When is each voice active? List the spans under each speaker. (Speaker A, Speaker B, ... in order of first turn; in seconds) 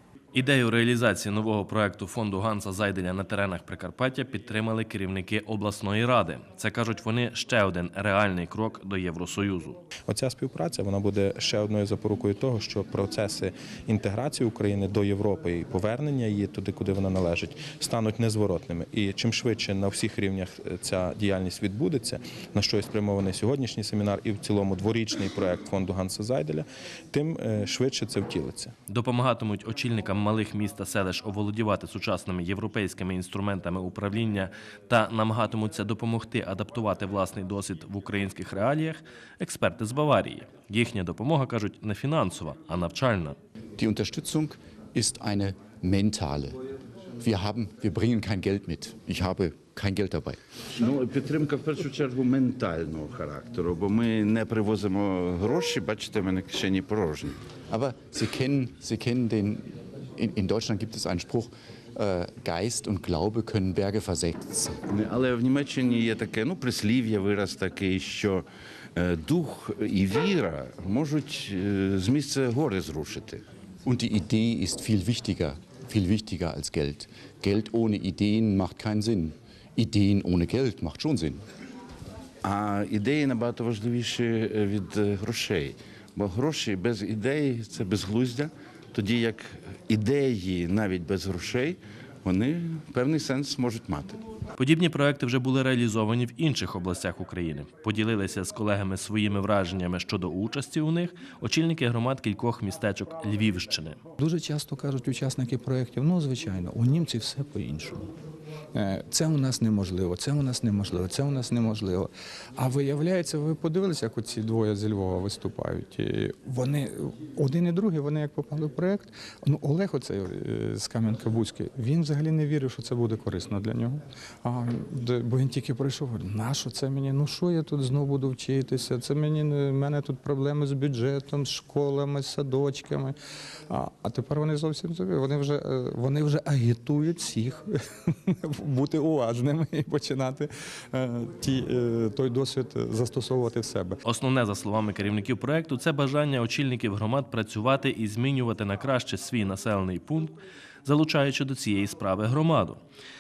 Speaker A: 0.3-9.8, 28.9-43.4, 94.6-104.0, 144.1-152.8
Speaker B: 10.1-28.7
Speaker C: 43.8-46.6, 47.2-50.4, 57.7-64.8, 73.8-81.4
Speaker D: 50.7-57.4, 64.9-73.4, 82.4-94.2
Speaker E: 104.2-108.1, 108.7-133.2, 133.7-144.0